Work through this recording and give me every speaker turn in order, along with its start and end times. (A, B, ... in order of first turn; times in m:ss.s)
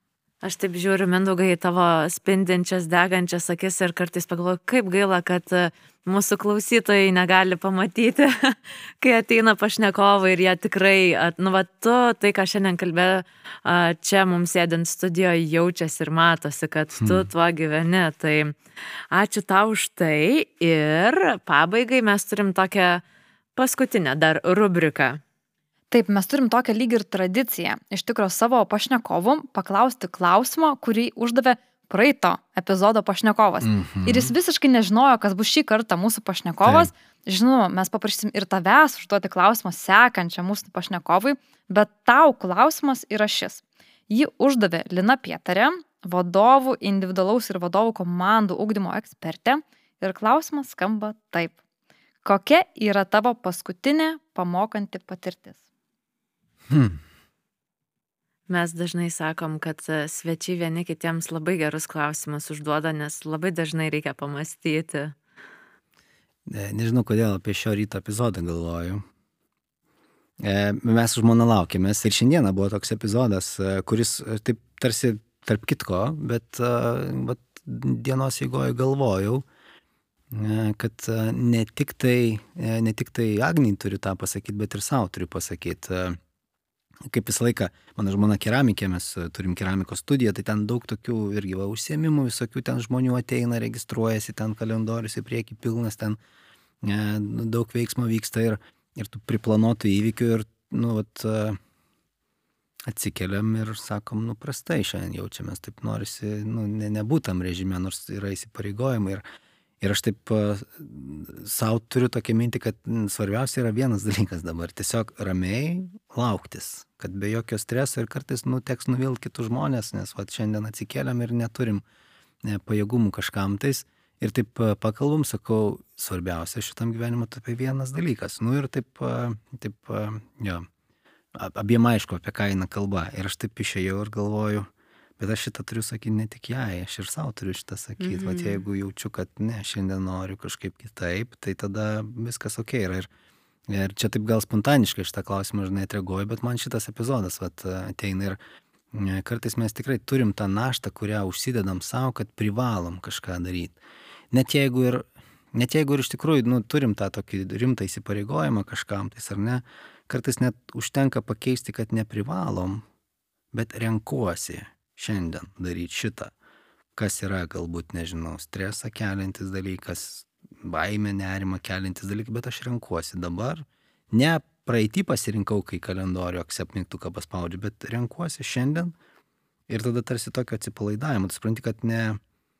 0:00.4-0:18.6 A
0:17.0-0:17.3 B
0:19.1-0:23.0 A
0:23.6-0:25.2 A
0:25.9-0:51.6 C
0:33.6-0:34.3 B
0:36.6-0:36.9 B
0:52.2-0:55.6 C
0:56.7-0:57.0 B
0:58.5-1:05.1 A
1:06.5-1:09.0 B
1:10.4-1:19.4 B
1:20.3-1:26.2 B
1:27.0-1:36.2 B
1:36.8-1:41.6 B
1:42.9-1:49.2 B
1:49.8-2:01.8 B
2:02.4-2:10.7 B
2:11.3-2:14.7 B
2:15.2-2:23.1 B
2:18.0-2:18.6 A
2:23.7-2:28.4 B
2:28.9-2:33.8 B
2:34.3-2:42.8 B
2:43.5-2:46.3 B
2:47.0-2:58.9 B
2:59.7-3:02.2 B